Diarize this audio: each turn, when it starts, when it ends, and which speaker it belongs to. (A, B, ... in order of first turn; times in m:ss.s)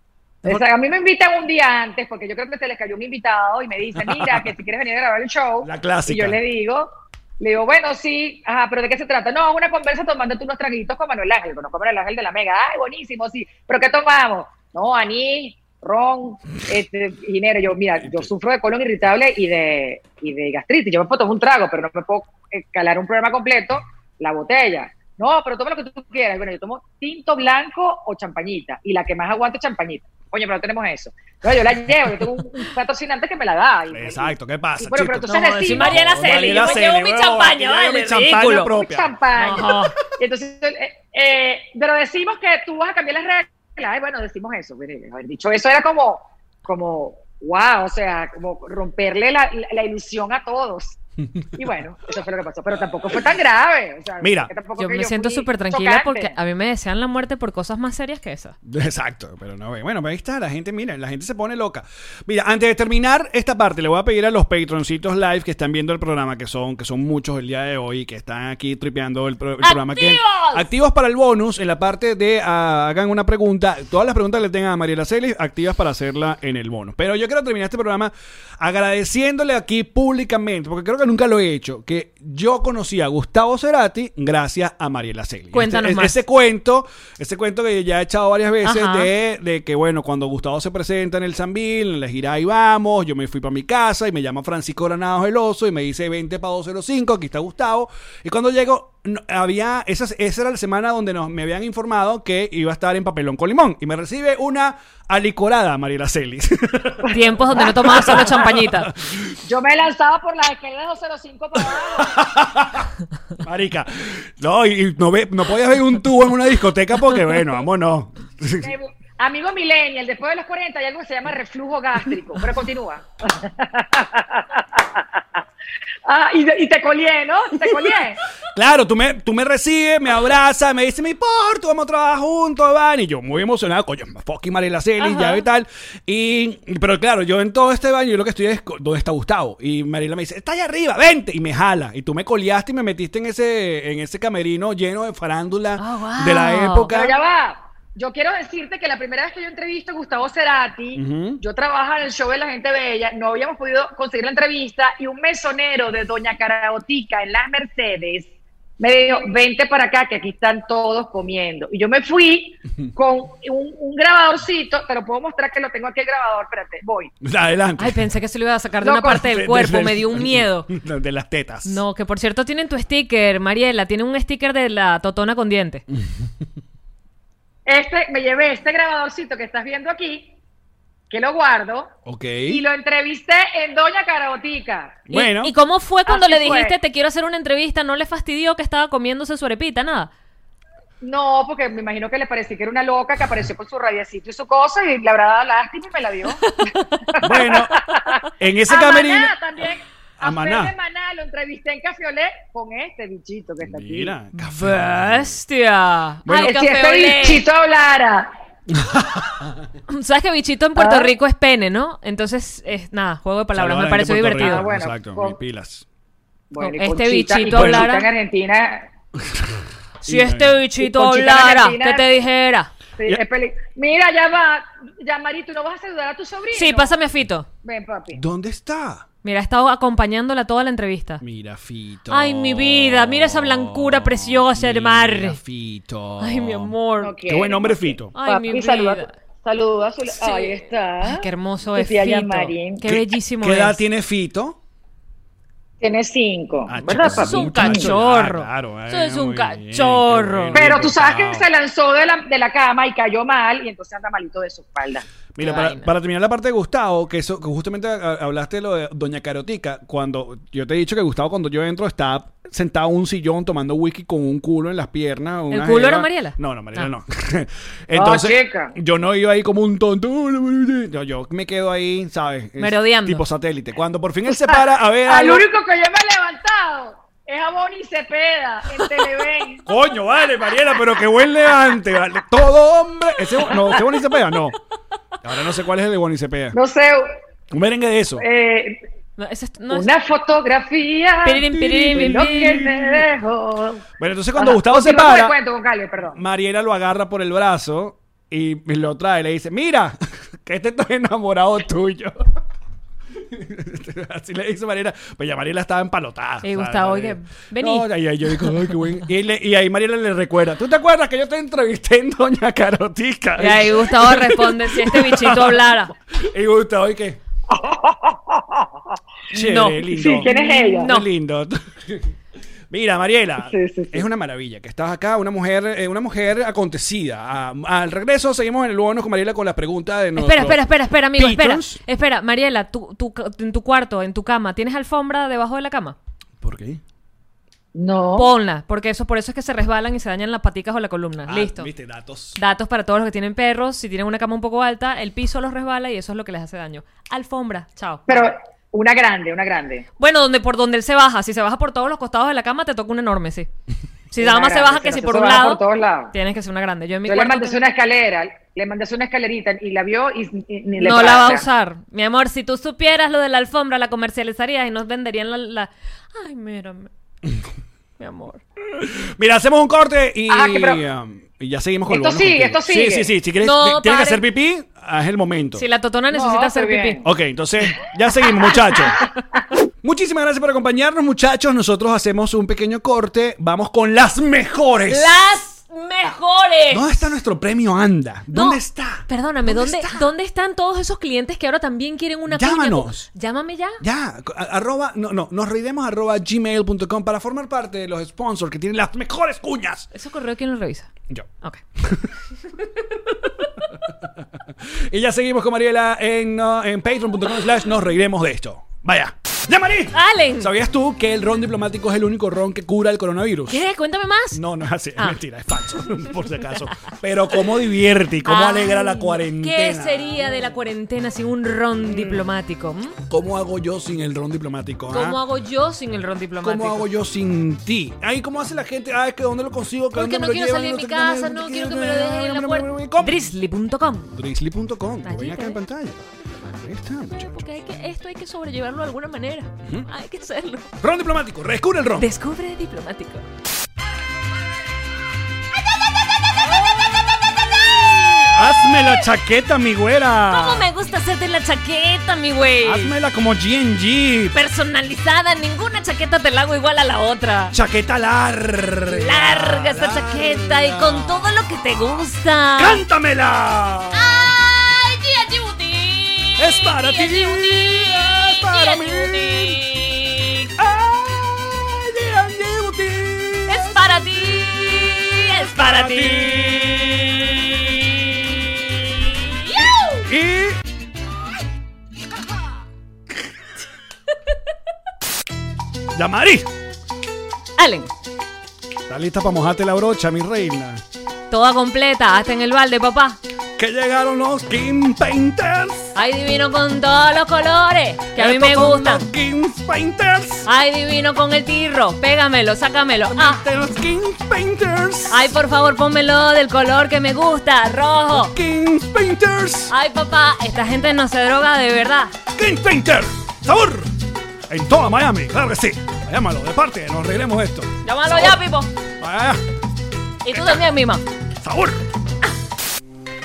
0:00.4-0:36.6 A
0:04.0-0:04.5 B
0:05.6-0:06.4 B
0:18.0-0:18.3 B
0:33.9-0:39.1 B
0:35.3-0:38.7 C
0:38.6-0:51.0 A
0:39.4-0:40.0 C
0:51.4-0:51.7 B
0:51.6-0:56.4 A
0:54.2-0:54.5 B
0:54.8-0:58.6 C
0:58.6-1:49.4 B
1:09.6-1:10.6 C
1:25.5-1:26.2 C
1:28.6-1:29.1 C
1:47.0-1:48.5 A
1:47.1-1:48.9 C
1:49.4-1:52.2 A
1:51.8-1:52.9 B
1:53.4-1:58.7 B
1:58.6-2:05.4 A
2:06.0-2:08.2 A
2:08.5-2:27.2 B
2:15.0-2:15.3 C
2:25.8-2:26.9 C
2:26.9-2:47.1 A
2:31.0-2:31.4 B
2:47.2-2:48.1 B
2:47.8-2:50.7 C
2:48.8-2:49.2 A
2:49.1-2:51.8 B
2:51.6-2:55.8 C
2:56.0-2:56.3 B
2:57.7-3:00.4 A
3:01.1-3:01.9 A
3:02.1-3:02.6 B
3:02.5-3:05.0 A
3:05.1-3:05.5 B
3:05.1-3:10.1 C
3:06.1-3:06.8 A
3:11.0-3:24.1 A
3:16.4-3:16.8 C
3:17.2-3:19.3 B
3:20.2-3:20.7 B
3:23.6-3:25.4 B
3:24.4-3:27.5 C
3:26.2-3:26.6 B
3:26.3-3:28.3 A
3:28.7-3:29.6 B
3:29.9-3:34.6 C
3:30.8-3:31.1 A
3:33.5-3:35.9 B
3:34.4-3:35.4 A
3:36.5-3:38.9 A
3:36.6-3:38.1 C
3:37.5-3:38.0 B
3:39.3-3:40.6 B
3:40.0-3:42.7 C
3:40.8-3:42.2 A
3:43.0-3:47.0 A
3:46.5-3:47.5 C
3:47.6-3:48.2 A
3:48.1-3:49.1 B
3:49.2-3:51.2 C
3:51.2-3:58.1 B
3:52.1-3:55.4 C
3:56.2-3:57.2 C
3:57.0-4:02.8 A
3:58.2-3:59.1 C
4:00.2-4:03.8 C
4:02.8-4:04.6 B
4:05.8-4:07.9 A
4:06.7-4:11.5 B
4:06.8-4:10.6 C
4:10.5-4:15.1 A
4:15.4-4:35.5 B
4:15.4-4:15.9 C
4:25.5-4:26.9 C
4:28.0-4:28.8 A
4:32.6-4:33.2 C
4:34.5-4:39.7 A
4:39.7-4:44.6 B
4:43.4-4:44.0 A
4:45.2-4:46.6 B
4:46.5-4:47.1 A
4:47.5-4:48.2 B
4:48.2-4:48.8 A
4:49.2-4:49.9 C
4:49.7-4:56.2 A
4:51.2-4:52.8 C
4:51.5-4:53.0 B
4:54.0-4:55.4 B
4:56.1-5:02.2 B
5:03.2-5:17.2 B
5:06.4-5:08.7 C
5:13.4-5:15.9 C
5:17.5-5:19.0 A
5:19.3-5:22.1 B
5:19.3-5:21.1 C
5:19.9-5:20.9 A
5:22.7-5:30.6 B
5:23.4-5:24.0 A
5:30.2-5:36.0 C
5:31.2-5:31.8 B
5:36.4-5:36.8 B
5:37.8-5:38.3 A
5:38.2-5:41.7 C
5:41.3-5:42.4 B
5:42.4-5:48.3 C
5:48.1-5:49.9 A
5:50.0-5:53.5 C
5:54.1-5:55.6 C
5:54.2-5:56.1 A
5:56.1-5:57.6 C
5:57.1-6:01.5 A
6:00.8-6:06.9 C
6:08.0-6:08.4 C
6:08.8-6:15.6 B
6:10.3-6:10.8 A
6:11.9-6:13.1 A
6:13.4-6:14.2 C
6:15.6-6:17.0 C
6:16.1-6:17.1 A
6:17.0-6:19.0 B
6:19.8-6:25.1 B
6:24.9-6:27.0 C
6:26.7-6:30.1 B
6:28.3-6:33.8 C
6:32.3-6:33.1 B
6:33.8-6:39.9 B
6:39.9-6:40.9 C
6:41.8-6:42.1 B
6:44.9-6:53.6 B
6:49.9-6:50.5 C
6:53.5-6:54.4 C
6:54.3-7:00.3 B
6:58.2-7:03.0 C
7:03.1-7:05.2 B
7:04.9-7:06.9 C
7:06.4-7:13.2 B
7:09.9-7:14.2 C
7:14.2-7:17.4 B
7:15.0-7:15.6 C
7:17.1-7:20.7 C
7:20.8-7:22.1 B
7:22.0-7:23.3 C
7:26.2-7:29.0 C
7:27.9-7:30.7 B
7:30.3-7:32.9 C
7:32.6-7:34.4 B
7:34.3-7:37.6 C
7:37.5-7:42.0 B
7:38.9-7:42.8 C
7:42.6-7:44.4 B
7:44.0-7:50.5 C
7:46.4-7:49.6 B
7:50.6-7:54.2 B
7:53.5-7:57.5 C
7:55.4-7:58.0 B
7:59.1-8:00.1 C
7:59.6-8:00.6 B
8:05.9-8:06.5 B
8:07.6-8:07.9 C
8:08.9-8:10.8 B
8:11.3-8:13.2 C
8:13.6-8:16.0 B
8:16.0-8:19.1 C
8:18.2-8:20.5 B
8:20.5-8:23.4 C
8:23.1-8:25.3 B
8:25.1-8:28.4 C
8:28.1-8:29.7 B
8:29.7-8:32.1 C
8:32.4-8:33.9 B
8:34.5-8:38.4 B
8:37.8-8:38.7 C
8:39.0-8:39.4 B
8:40.2-8:41.1 C
8:40.3-8:40.7 B
8:41.4-8:41.8 B